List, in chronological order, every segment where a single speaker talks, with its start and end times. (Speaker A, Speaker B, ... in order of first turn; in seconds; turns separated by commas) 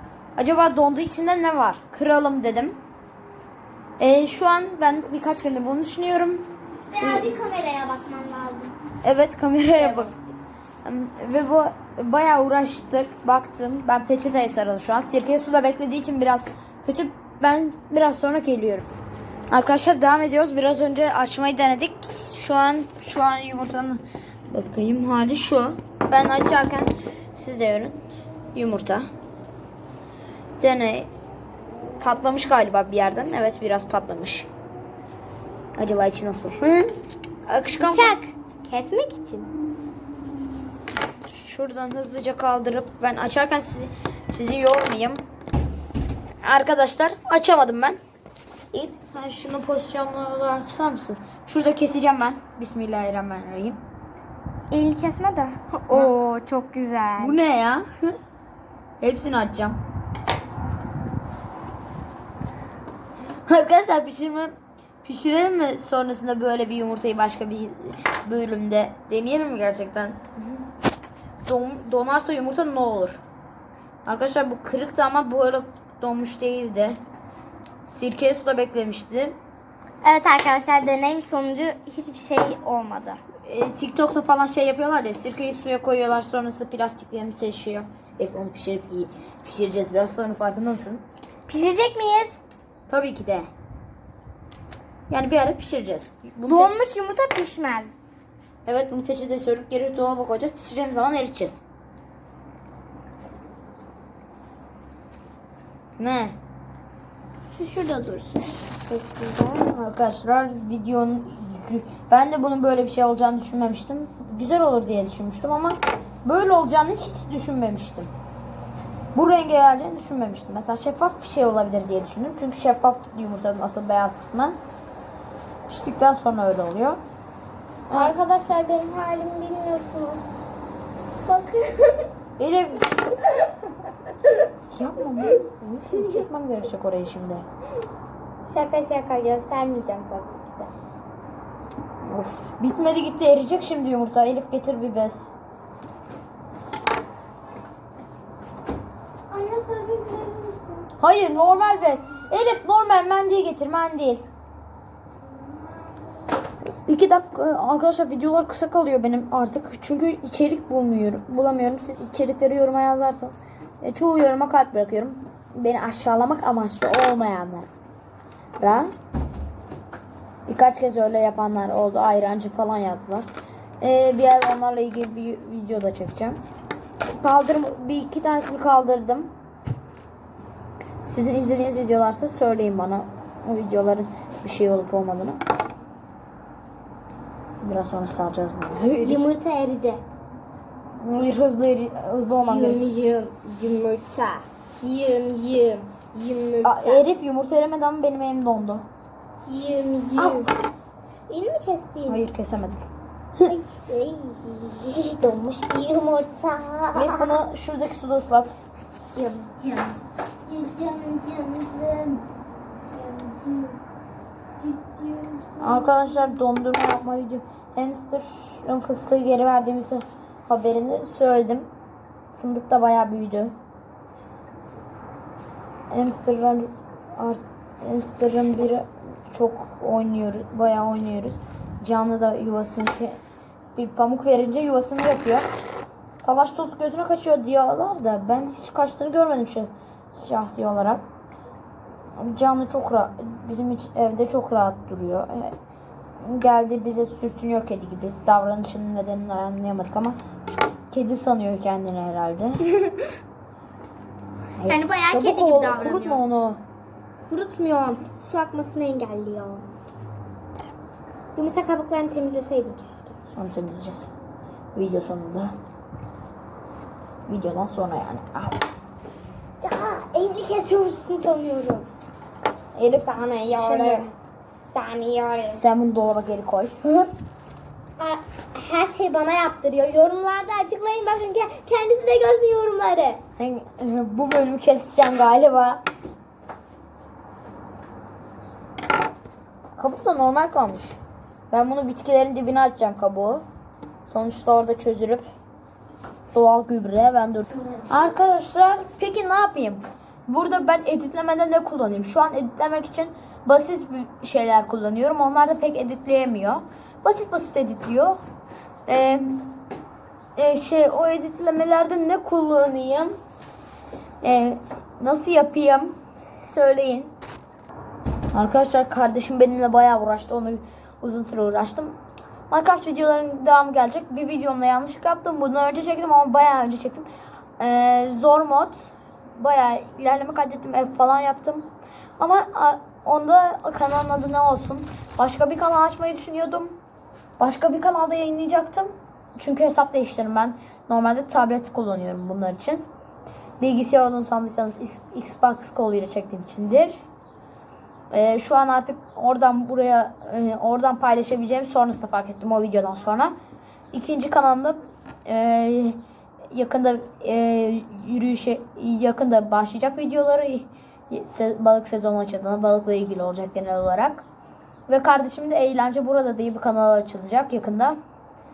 Speaker A: 0.4-2.8, Speaker A: 4.0-6.4, Speaker B: 6.9-8.8, Speaker A: 7.0-7.3, Speaker A: 9.0-10.1, Speaker B: 9.7-10.1, Speaker A: 10.8-18.9, Speaker A: 19.5-28.0, Speaker A: 28.5-29.1, Speaker A: 30.6-31.1, Speaker A: 32.0-34.5, Speaker A: 35.8-36.9, Speaker A: 37.5-38.1, Speaker B: 37.8-39.5, Speaker A: 41.3-45.2, Speaker A: 46.4-48.0, Speaker A: 48.7-53.8, Speaker B: 54.7-57.4, Speaker A: 57.2-58.1, Speaker A: 59.0-59.8, Speaker A: 63.5-64.5, Speaker A: 65.0-70.2, Speaker A: 71.5-73.2, Speaker A: 74.0-77.0, Speaker A: 77.8-79.4, Speaker B: 80.0-83.2, Speaker A: 83.5-91.0, Speaker B: 91.5-92.4, Speaker A: 92.9-93.5, Speaker A: 95.1-96.8, Speaker B: 96.4-98.0, Speaker A: 98.7-101.6, Speaker A: 106.0-106.3, Speaker A: 107.5-108.6, Speaker B: 108.6-109.7, Speaker A: 109.6-118.1, Speaker A: 119.1-124.5, Speaker A: 125.7-127.0, Speaker B: 127.9-130.3, Speaker B: 131.2-132.1, Speaker A: 132.4-132.9, Speaker A: 134.7-137.4, Speaker B: 135.9-136.2, Speaker B: 138.4-140.7, Speaker A: 142.0-145.3, Speaker B: 149.3-150.9, Speaker A: 151.0-154.2, Speaker B: 155.5-156.0, Speaker A: 156.7-167.7, Speaker A: 168.6-168.9, Speaker A: 170.5-173.2, Speaker A: 173.8-176.4, Speaker A: 177.2-179.3, Speaker A: 181.0-185.4, Speaker A: 187.6-189.2, Speaker B: 189.0-190.0, Speaker A: 191.0-192.8, Speaker B: 192.4-197.0, Speaker A: 196.6-198.8, Speaker B: 199.4-200.6, Speaker A: 200.2-200.5, Speaker B: 201.3-202.2, Speaker A: 202.1-202.8, Speaker B: 203.4-207.4, Speaker A: 206.9-208.6, Speaker B: 209.1-212.2, Speaker B: 212.9-213.8, Speaker B: 214.6-215.9, Speaker A: 215.6-221.7, Speaker A: 222.3-223.5, Speaker A: 225.9-233.2, Speaker A: 233.8-235.5, Speaker A: 236.2-241.1, Speaker A: 242.2-245.5, Speaker A: 246.2-250.2, Speaker A: 250.9-252.7, Speaker A: 254.6-256.6, Speaker B: 254.6-256.2, Speaker B: 257.3-259.6, Speaker B: 261.3-263.1, Speaker A: 263.3-264.1, Speaker A: 264.7-265.5, Speaker A: 267.3-268.6, Speaker B: 269.6-271.9, Speaker B: 272.7-274.1, Speaker A: 273.5-274.1, Speaker B: 274.7-275.6, Speaker A: 275.6-277.1, Speaker B: 278.0-283.2, Speaker A: 283.4-285.8, Speaker A: 289.8-291.0, Speaker A: 291.5-293.4, Speaker A: 294.1-295.2, Speaker A: 296.3-308.2, Speaker A: 308.9-309.6, Speaker A: 310.4-313.1, Speaker A: 314.2-317.1, Speaker A: 318.3-321.9, Speaker A: 322.5-327.1, Speaker A: 327.6-331.7, Speaker A: 332.2-336.8, Speaker A: 337.4-342.8, Speaker A: 343.6-347.0, Speaker A: 348.1-353.3, Speaker A: 353.9-356.0, Speaker A: 356.5-364.2, Speaker A: 364.9-368.0